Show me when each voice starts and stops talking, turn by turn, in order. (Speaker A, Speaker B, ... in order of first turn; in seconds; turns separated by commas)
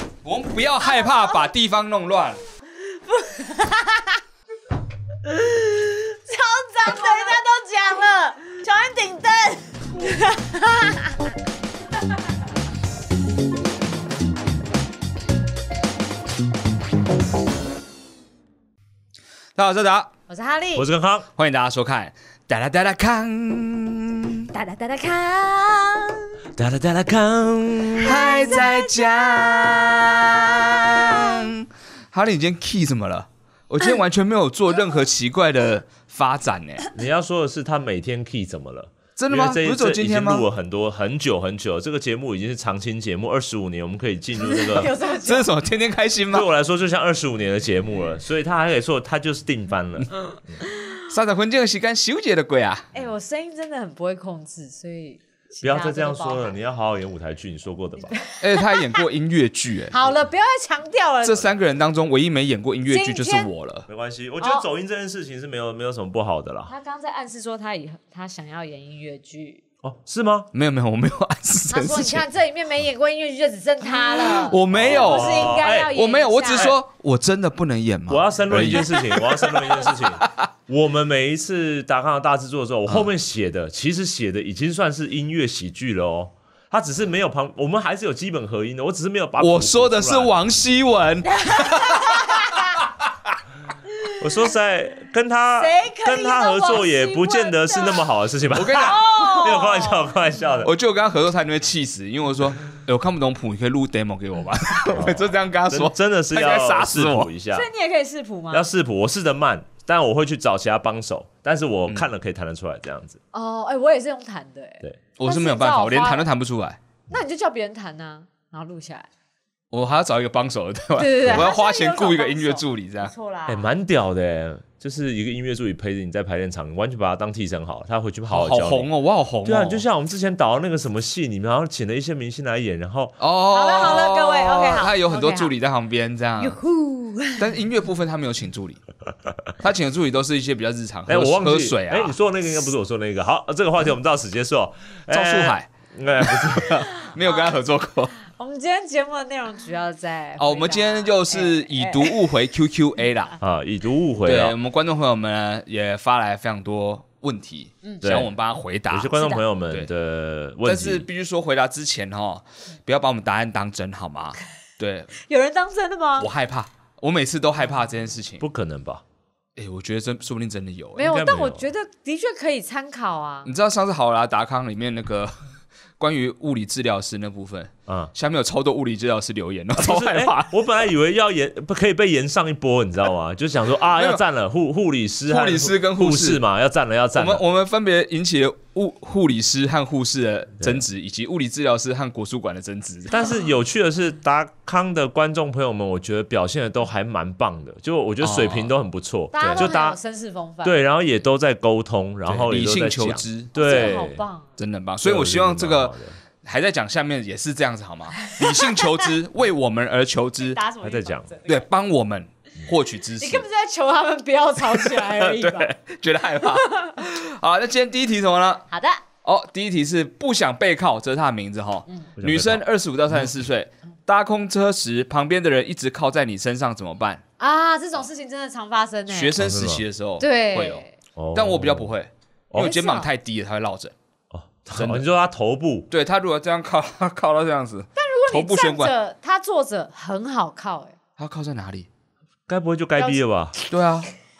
Speaker A: 0.2-2.4, Speaker B: 0.9-1.4, Speaker B: 2.8-4.2, Speaker B: 5.2-11.2, Speaker A: 19.6-20.1, Speaker B: 20.3-20.9, Speaker C: 20.8-21.3, Speaker A: 21.4-24.5, Speaker B: 24.5-26.3, Speaker C: 26.6-28.2, Speaker A: 28.0-36.9, Speaker B: 28.1-31.5, Speaker C: 36.9-45.0, Speaker A: 39.2-40.5, Speaker B: 44.4-45.5, Speaker A: 45.2-46.5, Speaker C: 46.3-50.6, Speaker B: 50.6-51.0, Speaker A: 51.1-52.9, Speaker B: 52.9-56.5, Speaker C: 55.6-58.2, Speaker B: 58.0-59.0, Speaker A: 58.4-60.0, Speaker B: 59.9-61.5, Speaker A: 61.2-63.9, Speaker B: 62.9-63.5, Speaker C: 63.9-66.7, Speaker B: 64.4-64.7, Speaker B: 66.7-69.6, Speaker C: 69.8-70.5, Speaker A: 70.5-72.3, Speaker B: 71.7-76.8, Speaker A: 74.2-80.5, Speaker C: 74.6-75.9, Speaker C: 78.1-90.3, Speaker B: 78.8-79.7, Speaker A: 89.4-92.5, Speaker B: 91.2-92.8, Speaker B: 93.9-94.5, Speaker C: 94.2-100.7, Speaker B: 95.6-98.0, Speaker A: 98.5-99.0, Speaker B: 98.7-100.1, Speaker A: 100.6-107.3, Speaker C: 104.9-107.7, Speaker B: 107.5-108.7, Speaker C: 108.5-113.2, Speaker B: 113.3-116.3, Speaker A: 115.2-116.8, Speaker B: 117.1-119.1, Speaker A: 119.7-123.1, Speaker B: 121.0-123.7, Speaker C: 121.2-121.5, Speaker C: 123.5-128.9, Speaker A: 128.3-129.8, Speaker C: 129.4-133.2, Speaker A: 133.2-136.6, Speaker B: 133.5-135.5, Speaker B: 136.4-137.5, Speaker A: 137.4-138.8, Speaker A: 139.6-142.2, Speaker C: 141.1-146.9, Speaker A: 145.1-145.7, Speaker A: 146.2-148.1, Speaker B: 147.0-147.6, Speaker B: 148.2-152.2, Speaker A: 150.4-153.4, Speaker C: 153.4-154.6, Speaker A: 154.2-159.2, Speaker C: 158.0-158.3, Speaker C: 158.9-161.1, Speaker B: 159.1-159.4, Speaker A: 160.6-165.1, Speaker B: 165.2-166.3, Speaker A: 166.2-168.4, Speaker C: 168.4-169.0, Speaker A: 169.6-171.1, Speaker B: 171.0-173.5, Speaker C: 171.0-171.7, Speaker A: 173.4-175.4, Speaker A: 176.0-180.6, Speaker C: 177.9-178.1, Speaker C: 179.8-187.4, Speaker A: 184.0-184.2, Speaker A: 185.3-186.4, Speaker A: 187.1-193.3, Speaker C: 193.1-200.0, Speaker A: 198.2-198.8, Speaker B: 199.3-200.8, Speaker C: 200.6-204.2, Speaker A: 202.3-203.9, Speaker B: 203.6-204.5, Speaker A: 204.6-210.6, Speaker C: 205.0-206.2, Speaker B: 208.2-209.1, Speaker B: 210.4-211.7, Speaker C: 210.8-211.3, Speaker A: 211.5-213.5, Speaker B: 213.2-215.7, Speaker A: 214.6-218.7, Speaker B: 216.5-216.9, Speaker B: 218.7-219.0, Speaker A: 219.2-227.2, Speaker C: 222.2-222.7, Speaker B: 227.4-229.3, Speaker A: 229.1-233.9, Speaker C: 229.4-229.8, Speaker B: 230.2-230.9, Speaker C: 231.2-231.9, Speaker B: 232.6-233.1, Speaker C: 234.3-235.9, Speaker A: 234.7-235.1, Speaker A: 235.9-238.9, Speaker B: 238.0-241.0, Speaker A: 241.2-241.9, Speaker C: 242.5-243.6, Speaker B: 243.0-243.7, Speaker A: 243.7-244.1